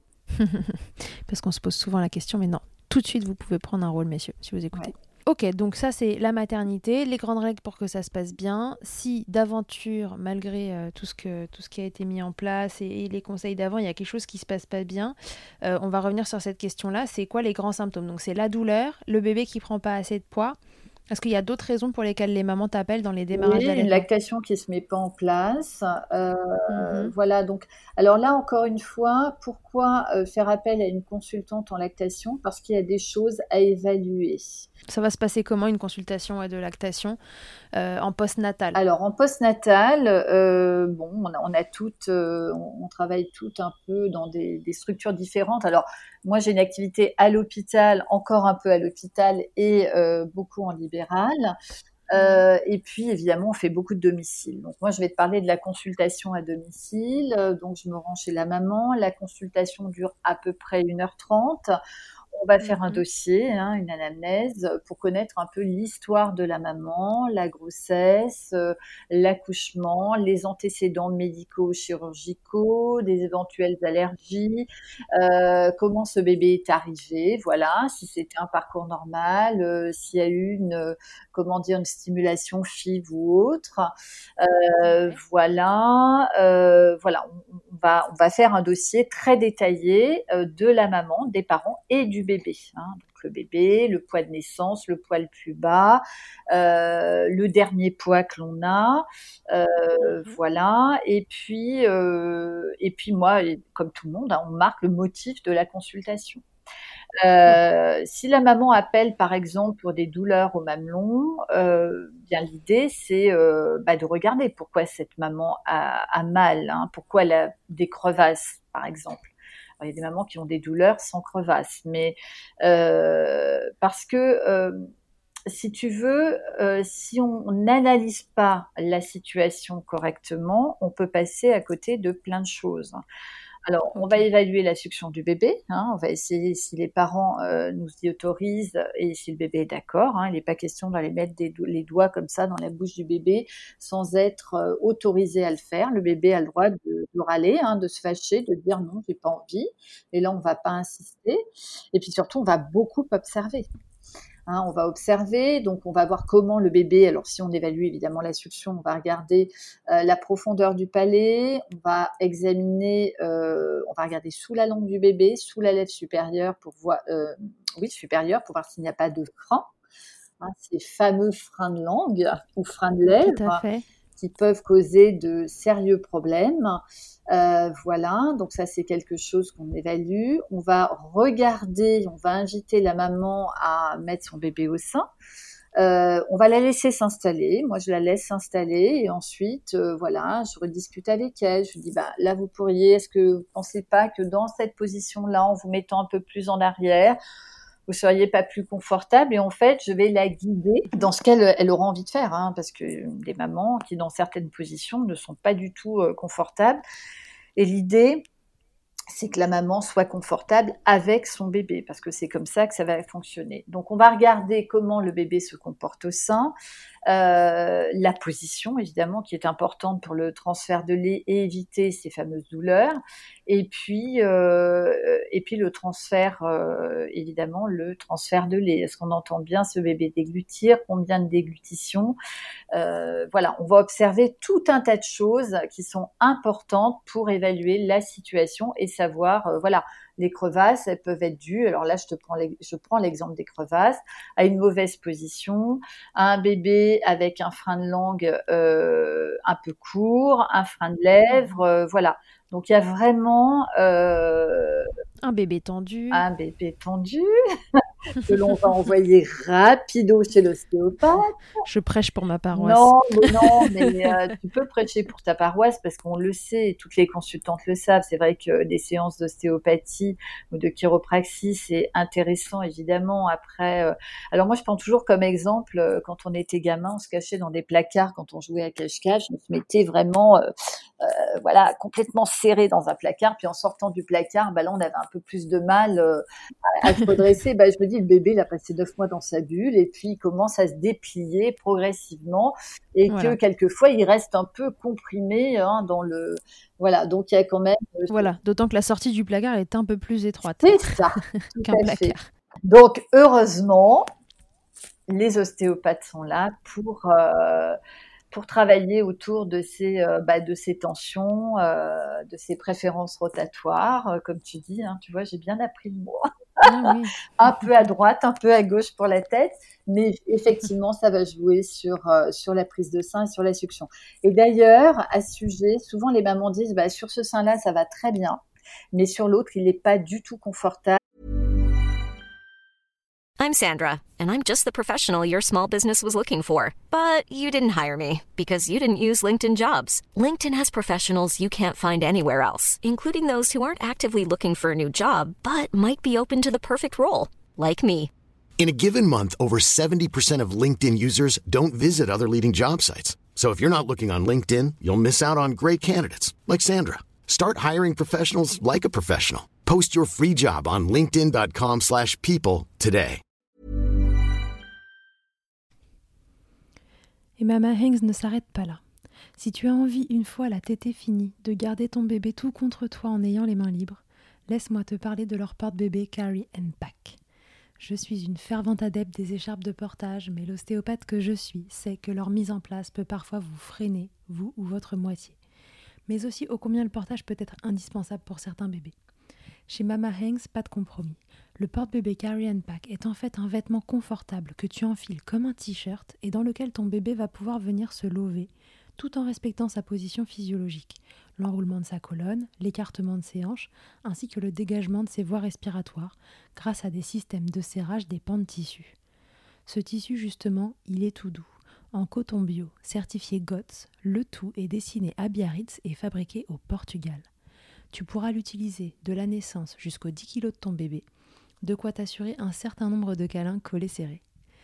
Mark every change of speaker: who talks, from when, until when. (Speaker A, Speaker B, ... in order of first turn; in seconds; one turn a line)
Speaker A: 0.4-20.6
Speaker A: 21.1-24.1
Speaker B: 23.3-34.7
Speaker A: 26.7-27.1
Speaker A: 34.9-37.2
Speaker A: 37.7-38.8
Speaker B: 38.7-51.5
Speaker B: 52.1-61.7
Speaker A: 52.1-52.4
Speaker B: 62.3-106.4
Speaker A: 62.6-63.0
Speaker A: 84.8-85.2
Speaker A: 100.0-100.4
Speaker B: 107.2-124.9
Speaker B: 125.5-133.0
Speaker B: 133.7-151.4
Speaker A: 133.9-134.2
Speaker B: 151.9-153.7
Speaker B: 154.5-169.7
Speaker B: 170.4-173.6
Speaker A: 173.1-173.8
Speaker B: 174.2-185.1
Speaker B: 185.8-197.2
Speaker B: 197.9-206.8
Speaker B: 207.6-208.2
Speaker B: 209.1-216.5
Speaker B: 217.1-232.2
Speaker B: 232.7-254.9
Speaker A: 251.3-251.6
Speaker A: 255.2-256.2
Speaker B: 256.1-261.3
Speaker A: 261.6-264.1
Speaker B: 262.5-298.3
Speaker A: 293.1-293.4
Speaker A: 298.1-302.2
Speaker B: 300.5-304.1
Speaker B: 305.1-307.8
Speaker B: 308.3-328.4
Speaker A: 316.6-317.7
Speaker B: 328.9-331.0
Speaker C: 333.4-348.1
Speaker D: 348.6-363.2
Speaker A: 367.4-368.8
Speaker A: 369.4-377.2
Speaker A: 377.8-385.4
Speaker A: 386.1-388.9
Speaker A: 389.7-408.9
Speaker A: 409.7-417.3
Speaker A: 417.9-421.0
Speaker A: 421.6-424.2